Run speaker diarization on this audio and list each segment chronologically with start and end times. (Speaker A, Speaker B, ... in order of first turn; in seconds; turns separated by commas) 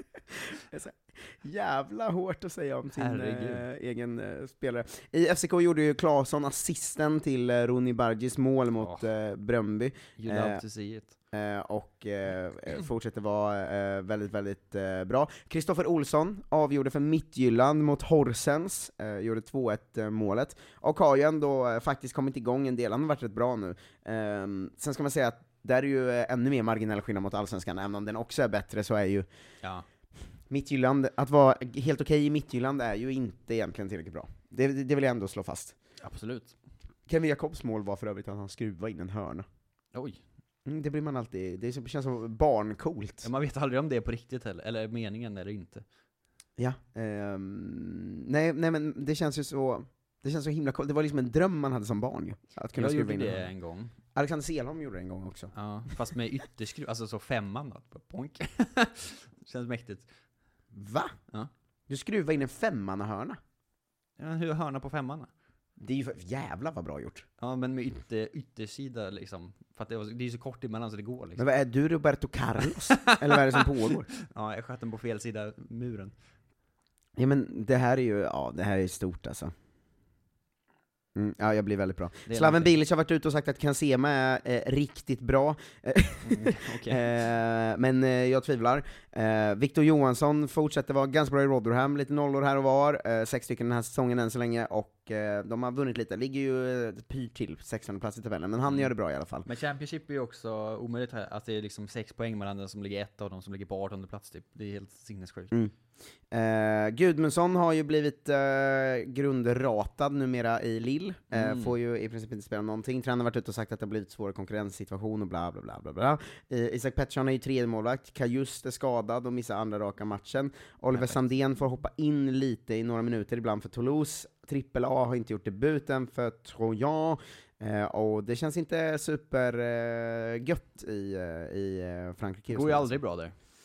Speaker A: 0.7-10.6, Speaker B: 2.9-3.6, Speaker B: 8.8-9.1, Speaker B: 10.2-11.1, Speaker A: 11.3-29.3, Speaker A: 30.5-35.7, Speaker B: 36.0-36.5, Speaker A: 37.1-39.5, Speaker B: 39.9-40.2, Speaker A: 40.6-43.3, Speaker B: 43.2-45.8, Speaker A: 46.6-53.5, Speaker B: 52.8-53.9, Speaker A: 54.1-55.5, Speaker B: 55.5-60.1, Speaker A: 60.7-61.1, Speaker A: 61.9-63.4, Speaker B: 64.2-65.3, Speaker A: 65.8-67.3, Speaker B: 67.4-71.4, Speaker A: 71.4-74.1, Speaker B: 72.9-76.1, Speaker A: 77.2-79.5, Speaker A: 81.1-99.5, Speaker B: 82.3-82.8, Speaker B: 86.2-87.0, Speaker B: 98.7-98.9, Speaker B: 99.5-105.5, Speaker A: 106.3-132.9, Speaker B: 111.3-111.8, Speaker B: 120.9-121.2, Speaker B: 132.5-133.3